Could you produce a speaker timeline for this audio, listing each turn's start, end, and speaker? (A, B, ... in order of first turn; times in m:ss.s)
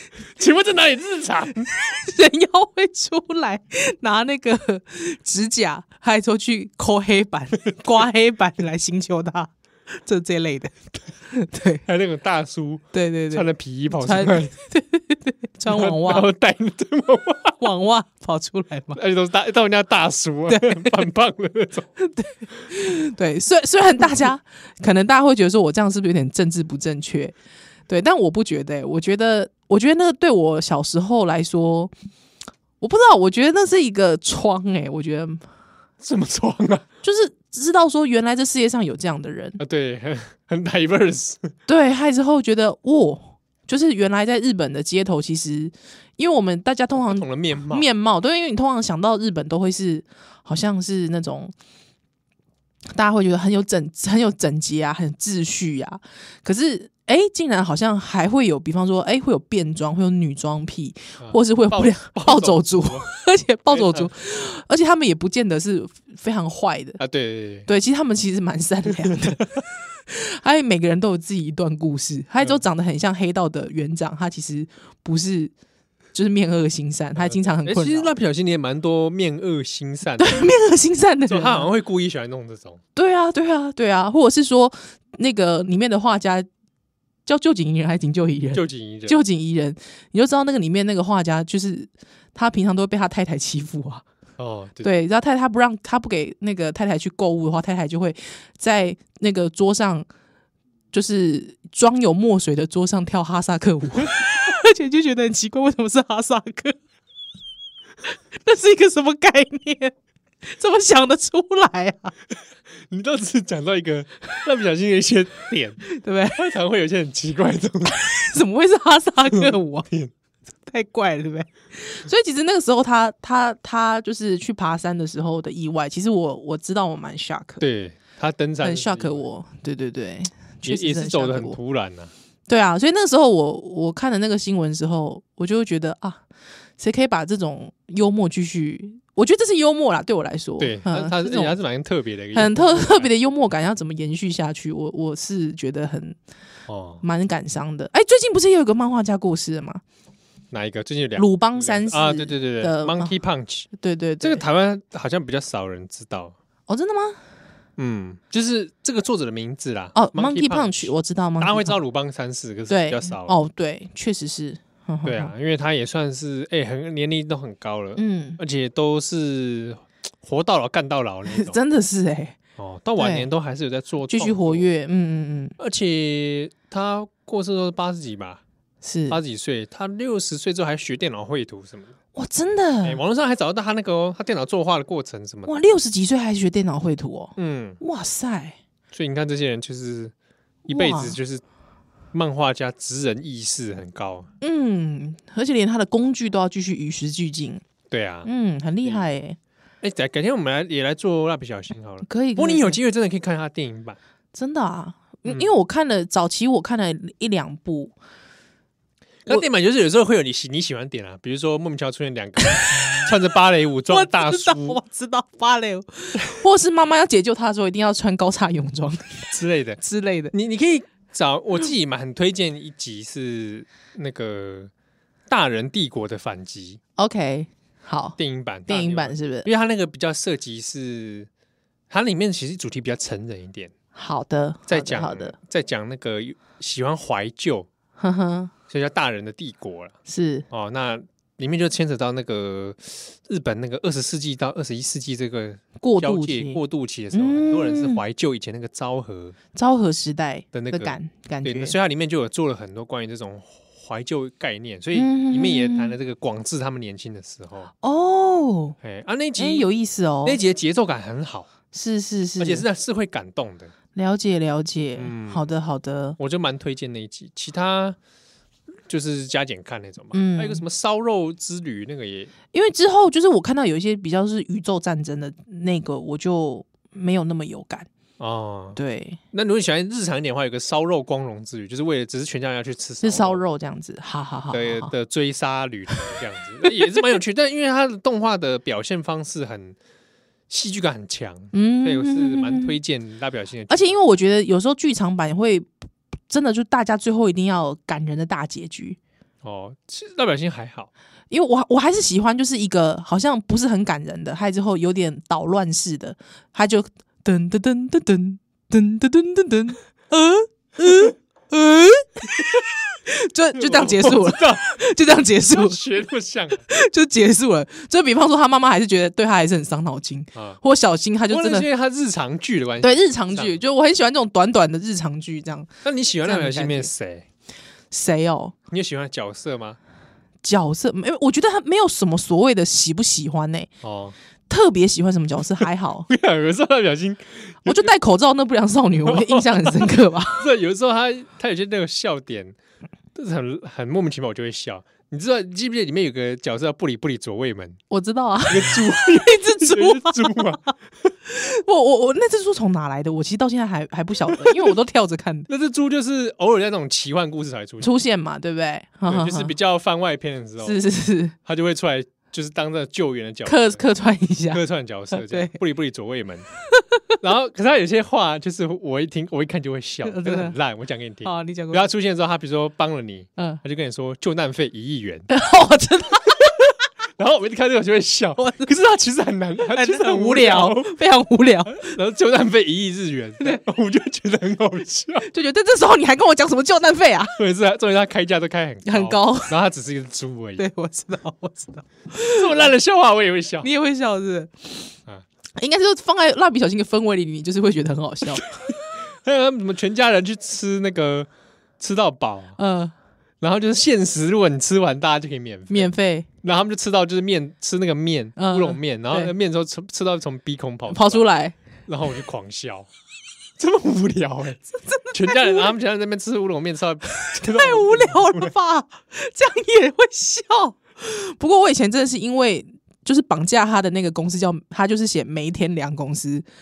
0:00.4-0:01.7 A
0:01.7-0:11.8 B
0:11.8-0:14.5 A
0:12.9-0:16.3 B
0:15.6-0:17.6 A
0:17.6-0:19.0 B
0:18.9-0:21.9 A
0:20.5-0:21.0 B
0:22.0-0:27.4 B
0:27.9-0:31.9 B
0:32.8-0:35.4 B
0:36.0-0:36.8 A
0:37.0-0:39.6 B
0:39.6-0:41.5 A
0:41.7-0:51.5 B
0:47.0-0:47.9 A
0:52.9-1:07.0 B
1:01.2-1:03.1 A
1:03.7-1:04.1 A
1:07.0-1:07.7 A
1:07.6-1:09.4 B
1:10.1-1:15.5 B
1:16.1-1:18.1 B
1:17.2-1:20.5 A
1:20.2-1:21.7 B
1:21.3-1:22.8 A
1:22.9-1:26.5 B
1:27.2-1:34.0 B
1:28.5-1:29.2 A
1:34.4-1:34.9 A
1:34.8-1:40.1 B
1:40.9-1:46.8 B
1:48.4-1:49.9 B
1:50.5-1:52.1 B
1:52.9-1:55.8 A
1:55.9-1:56.4 B
1:56.3-1:58.1 A
1:57.9-1:59.9 B
1:59.3-2:00.1 A
2:00.6-2:07.6 B
2:07.6-2:09.2 A
2:08.6-2:11.6 B
2:10.7-2:12.1 A
2:12.5-2:16.2 B
2:16.8-2:21.6 B
2:20.6-2:23.1 A
2:22.3-2:26.2 B
2:26.7-2:27.0 A
2:27.0-2:29.8 B
2:30.5-2:33.7 A
2:31.2-2:33.1 B
2:33.7-2:34.4 B
2:34.2-2:36.3 A
2:36.7-2:37.2 B
2:37.8-2:43.4 A
2:39.9-2:41.8 B
2:42.7-2:45.3 B
2:45.0-2:51.6 A
2:48.0-2:48.4 B
2:51.3-2:52.4 B
2:52.6-2:54.7 A
2:53.0-2:53.3 B
2:54.1-2:55.6 B
2:55.6-2:58.4 A
2:58.8-2:59.2 B
2:59.1-3:01.9 A
3:02.1-3:03.0 B
3:02.8-3:05.6 A
3:05.4-3:08.6 B
3:07.4-3:07.8 A
3:08.9-3:10.1 A
3:10.7-3:11.2 B
3:10.7-3:11.4 A
3:12.1-3:14.3 A
3:14.4-3:17.6 B
3:17.9-3:18.3 A
3:18.2-3:19.4 B
3:19.8-3:24.0 A
3:22.0-3:22.8 B
3:24.3-3:27.9 B
3:25.3-3:25.5 A
3:29.2-3:34.8 A
3:32.4-3:33.0 B
3:33.9-3:40.3 B
3:39.3-3:39.8 A
3:40.3-3:44.7 A
3:45.3-3:46.8 A
3:47.0-3:49.5 B
3:48.2-3:51.3 A
3:51.9-3:53.7 A
3:53.9-3:55.3 B
3:54.7-3:57.7 A
3:58.0-3:58.5 B
3:58.7-3:59.9 A
4:00.0-4:00.4 B
4:00.5-4:09.4 A
4:05.8-4:06.6 B
4:07.1-4:08.0 B
4:09.5-4:11.8 B
4:10.5-4:17.7 A
4:14.9-4:15.9 B
4:17.8-4:18.8 B
4:18.8-4:19.7 A
4:19.4-4:20.4 B
4:20.2-4:21.5 A
4:21.7-4:22.6 B
4:22.4-4:23.7 A
4:23.9-4:26.2 B
4:25.0-4:25.4 A
4:26.2-4:28.0 A
4:28.9-4:32.3 A
4:30.1-4:30.6 B
4:32.5-4:37.9 B
4:38.2-4:38.8 A
4:38.8-4:39.2 B
4:39.3-4:43.4 A
4:43.0-4:44.9 B
4:44.5-4:49.8 A
4:50.5-4:54.0 A
4:51.5-4:52.8 B
4:53.7-4:55.7 B
4:56.3-4:59.0 B
4:59.4-5:00.9 A
5:01.3-5:15.8 B
5:13.6-5:14.7 A
5:15.4-5:16.6 A
5:16.6-5:21.7 B
5:20.3-5:20.6 A
5:21.3-5:23.6 A
5:22.8-5:25.7 B
5:25.8-5:27.2 A
5:26.2-5:26.9 B
5:27.9-5:28.6 B
5:28.7-5:29.8 A
5:30.4-5:33.7 B
5:33.8-5:34.1 A
5:34.5-5:36.1 B
5:36.1-5:37.9 A
5:37.6-5:40.5 B
5:39.0-5:42.6 A
5:43.1-5:47.8 A
5:47.9-5:50.7 B
5:48.5-5:50.6 A
5:51.2-5:55.5 B
5:54.3-5:54.7 A
5:55.5-5:57.9 A
5:57.8-5:59.5 B
5:59.1-6:00.8 A
6:00.6-6:01.3 B
6:01.4-6:03.8 A
6:03.4-6:04.6 B
6:04.5-6:06.5 A
6:05.1-6:05.5 B
6:06.8-6:07.1 B
6:07.2-6:15.3 A
6:10.0-6:10.6 B
6:11.2-6:11.9 B
6:15.3-6:16.7 B
6:17.2-6:20.9 A
6:18.4-6:18.7 B
6:19.7-6:22.0 B
6:21.6-6:25.3 A
6:25.3-6:27.3 B
6:27.4-6:30.6 A
6:28.8-6:29.6 B
6:30.6-6:32.7 B
6:32.2-6:33.7 A
6:33.6-6:34.9 B
6:35.6-6:38.6 B
6:38.3-6:41.3 A
6:41.8-6:42.6 A
6:42.6-6:42.9 B
6:43.4-6:45.9 A
6:45.7-6:46.3 B
6:46.4-6:51.2 A
6:48.4-6:49.3 B
6:50.9-6:51.6 B
6:51.9-6:52.9 A
6:53.6-6:54.6 A
6:54.8-6:55.7 B
6:55.1-6:58.5 A
6:57.1-7:06.4 B